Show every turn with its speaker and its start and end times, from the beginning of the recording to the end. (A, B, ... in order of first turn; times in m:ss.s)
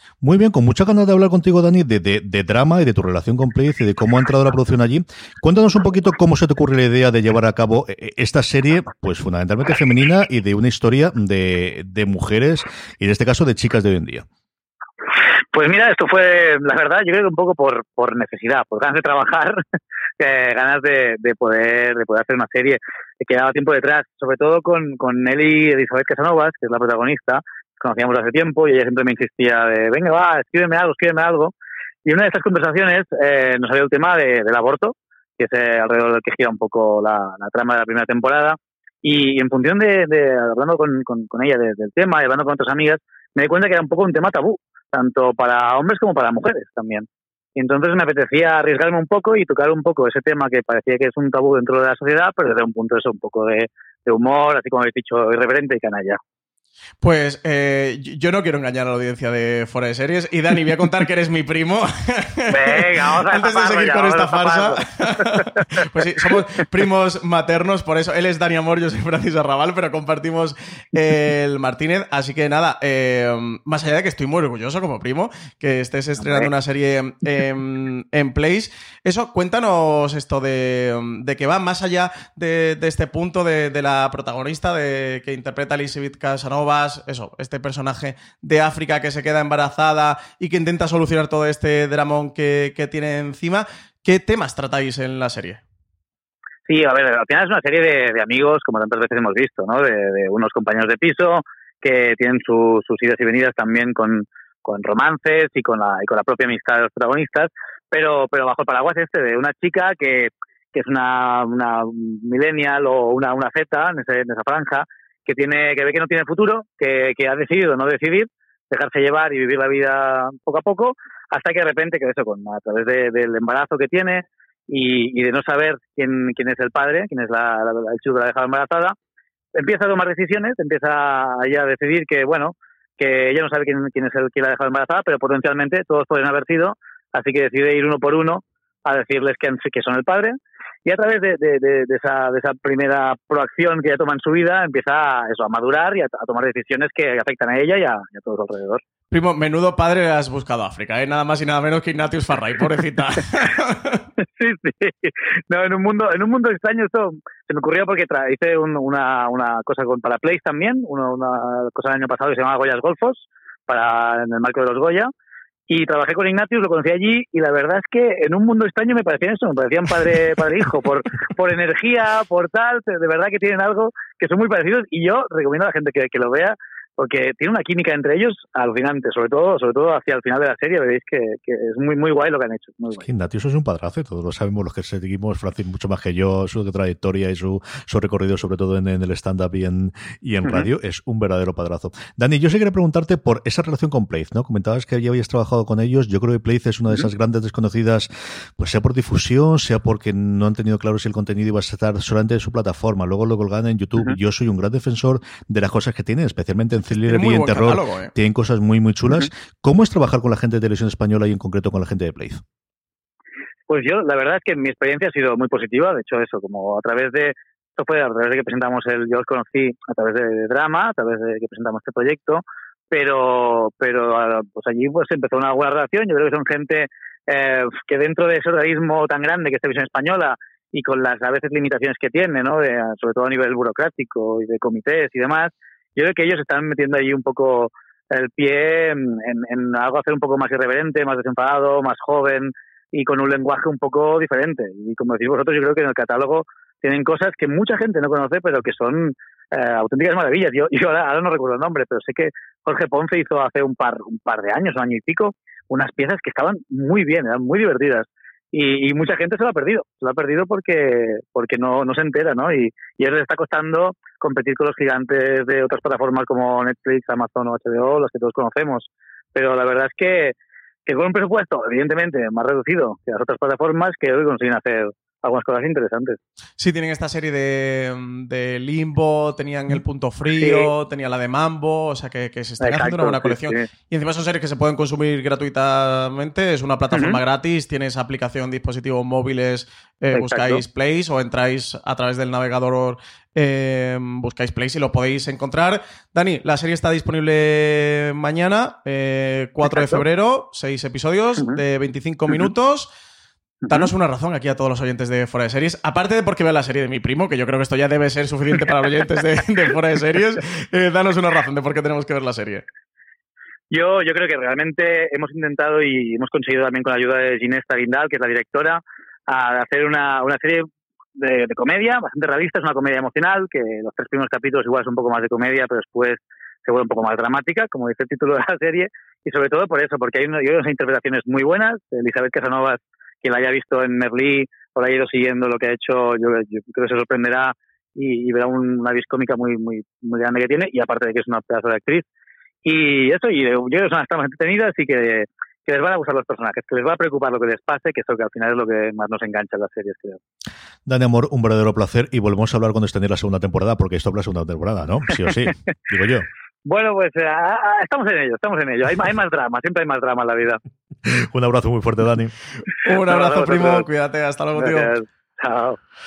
0:00.2-0:14.2 A
0:15.5-0:19.6 B
0:20.2-0:31.5 B
0:32.0-0:56.2 B
0:57.0-1:35.6 C
1:02.5-1:05.8 B
1:16.2-1:16.5 B
1:36.7-2:09.0 B
2:09.6-2:28.8 B
2:29.1-2:34.0 C
2:34.4-2:45.1 B
2:45.7-3:03.1 B
3:03.0-3:32.4 A
3:26.9-3:28.1 C
3:33.7-4:30.3 B
4:30.9-4:36.2 B
4:36.6-5:02.9 C
4:40.3-4:40.7 B
4:42.6-4:43.7 B
4:46.9-4:47.2 B
4:50.1-4:50.6 B
4:59.7-5:00.0 B
5:03.6-5:03.9 B
5:03.7-5:12.6 C
5:13.7-5:42.0 B
5:42.6-5:50.2 B
5:50.9-5:56.3 A
5:56.6-6:00.6 B
6:01.0-6:02.3 A
6:02.8-6:04.9 C
6:02.9-6:03.8 B
6:04.6-6:05.8 B